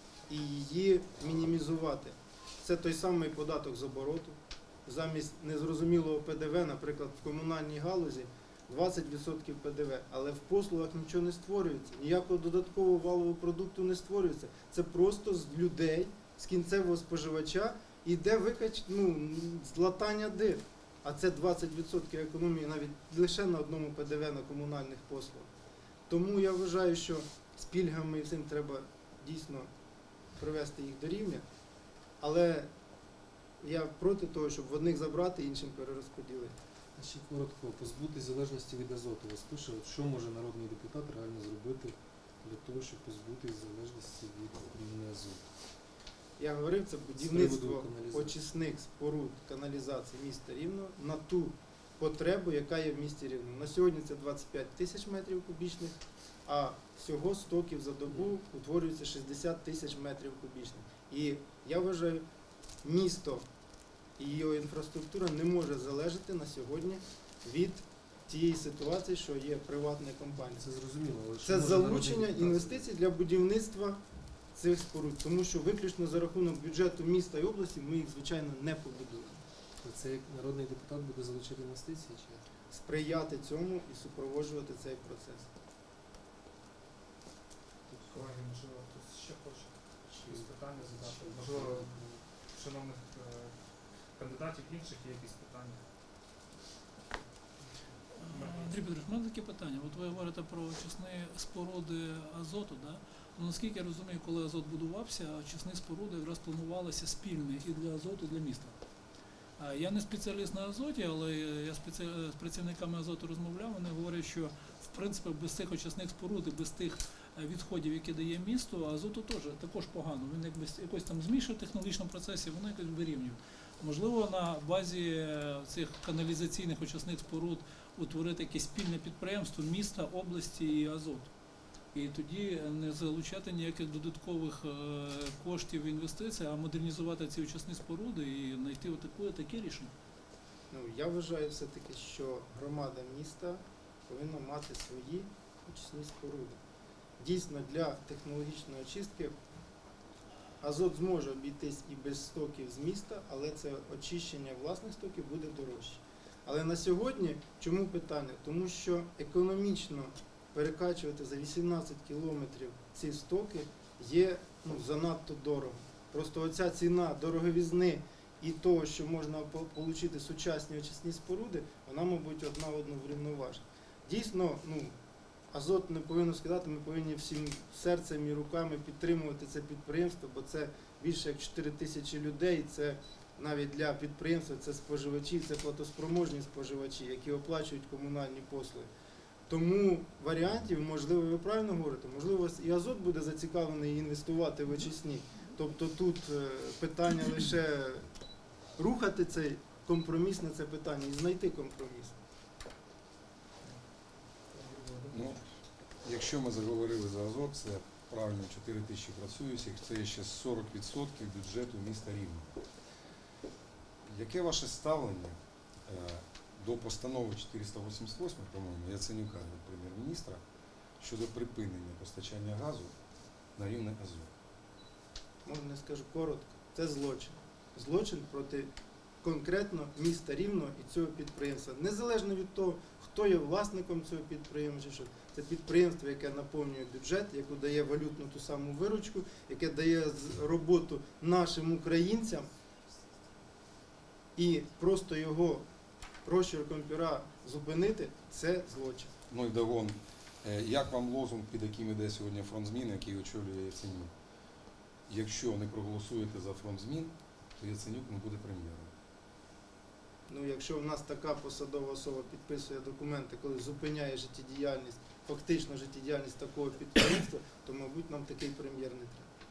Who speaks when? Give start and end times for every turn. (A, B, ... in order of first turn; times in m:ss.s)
0:00.3-0:25.5 A
0:26.1-0:29.7 A
0:30.4-0:31.4 A
0:32.2-0:32.7 A
0:33.6-0:36.6 A
0:37.0-0:45.5 B
0:46.4-1:02.2 A
0:47.2-0:48.4 B
1:02.8-1:03.4 A
1:04.2-1:10.6 A
1:10.5-1:12.9 B
1:11.4-1:14.0 A
1:14.6-1:19.4 A
1:19.8-1:22.4 B
1:22.7-1:25.5 A
1:27.9-1:28.3 B
1:28.1-1:33.6 C
1:30.1-1:32.0 B
1:34.2-1:35.8 C
1:38.2-1:48.8 D
1:38.3-1:38.8 C
1:49.6-2:11.3 D
2:11.9-2:19.9 D
2:20.7-2:26.6 A
2:27.2-2:29.3 A
2:30.6-2:54.9 A
2:55.5-3:08.9 A
3:09.5-3:18.1 A
3:18.8-3:22.2 A
3:24.5-3:25.4 C
3:25.1-3:25.4 E
3:26.0-3:32.6 E
3:34.0-3:40.4 E
3:41.0-3:42.9 E
3:43.6-3:44.3 E
3:45.4-3:48.7 A
3:49.2-4:02.5 A
4:04.4-4:05.6 A
4:06.2-4:09.1 A
4:09.3-4:14.1 E
4:15.1-4:18.9 E
4:20.3-4:29.3 A